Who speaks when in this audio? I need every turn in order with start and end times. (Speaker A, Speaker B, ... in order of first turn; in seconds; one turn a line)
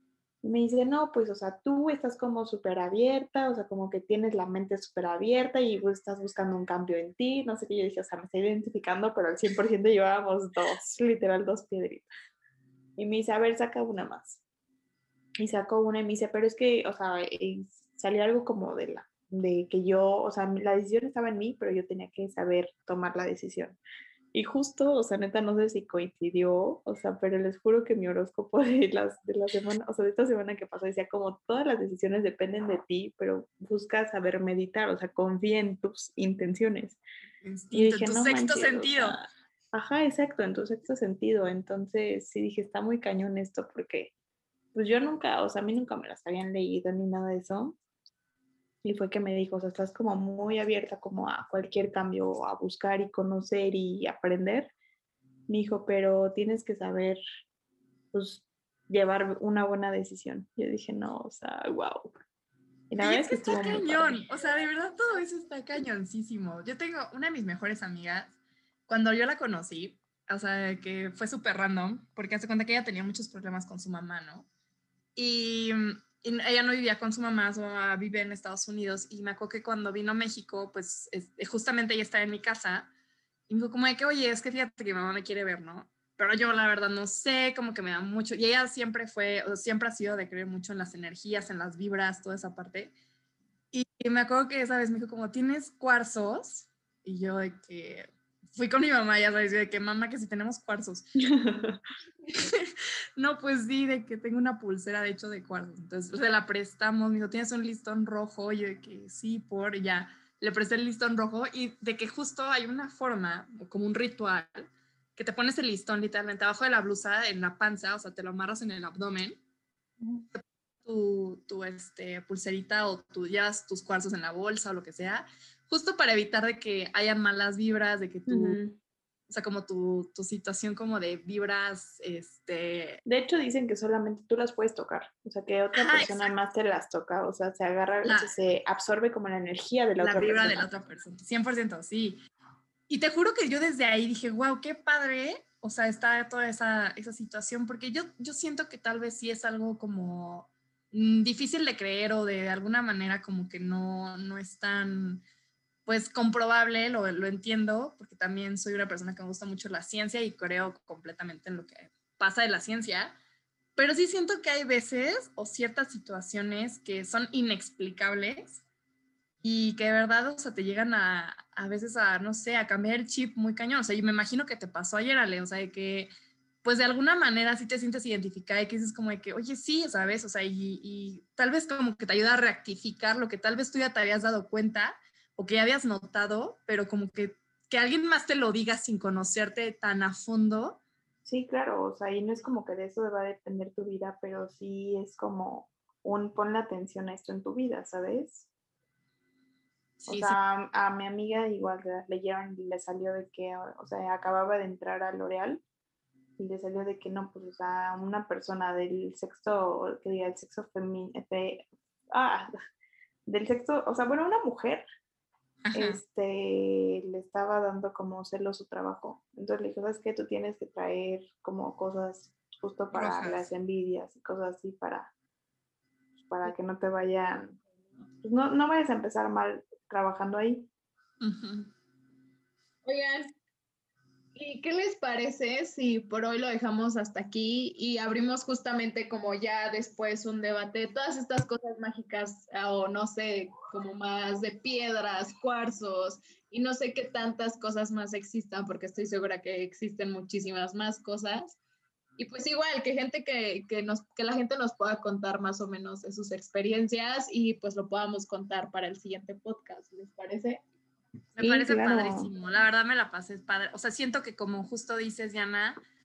Speaker A: 0.4-12.1
Speaker A: 13.0-14.4
Speaker A: 15.4-23.8
Speaker A: 24.3-37.0
Speaker B: 37.4-39.2
Speaker A: 37.7-44.1
Speaker A: 44.7-47.8
Speaker A: 48.8-54.7
Speaker A: 55.5-57.2
Speaker A: 58.1-62.1
Speaker A: 62.9-64.2
Speaker B: 63.0-68.3
Speaker B: 68.9-74.5
Speaker B: 75.2-82.9
Speaker B: 83.5-92.9
Speaker B: 93.7-101.1
Speaker A: 101.2-101.8
Speaker B: 102.3-102.7
Speaker B: 103.2-119.4
Speaker B: 120.3-128.6
Speaker A: 128.3-128.8
Speaker B: 129.3-133.0
Speaker A: 133.1-140.7
Speaker B: 135.8-136.3
Speaker B: 138.0-138.3
Speaker B: 140.0-142.2
Speaker B: 142.9-155.2
Speaker B: 155.9-163.2
Speaker B: 163.8-168.6
Speaker B: 169.4-176.1
Speaker B: 176.6-190.8
Speaker A: 191.2-198.5
Speaker B: 200.0-200.4
Speaker A: 200.1-205.6
Speaker A: 206.4-212.5
Speaker A: 213.3-214.8
Speaker B: 215.6-216.0
Speaker A: 215.7-225.1
Speaker B: 222.9-223.5
Speaker A: 226.2-227.6
Speaker A: 228.2-230.7
Speaker B: 231.2-231.7
Speaker C: 232.8-233.3
Speaker C: 234.3-251.6
Speaker C: 252.2-260.6
Speaker B: 261.4-265.8
Speaker A: 261.4-262.3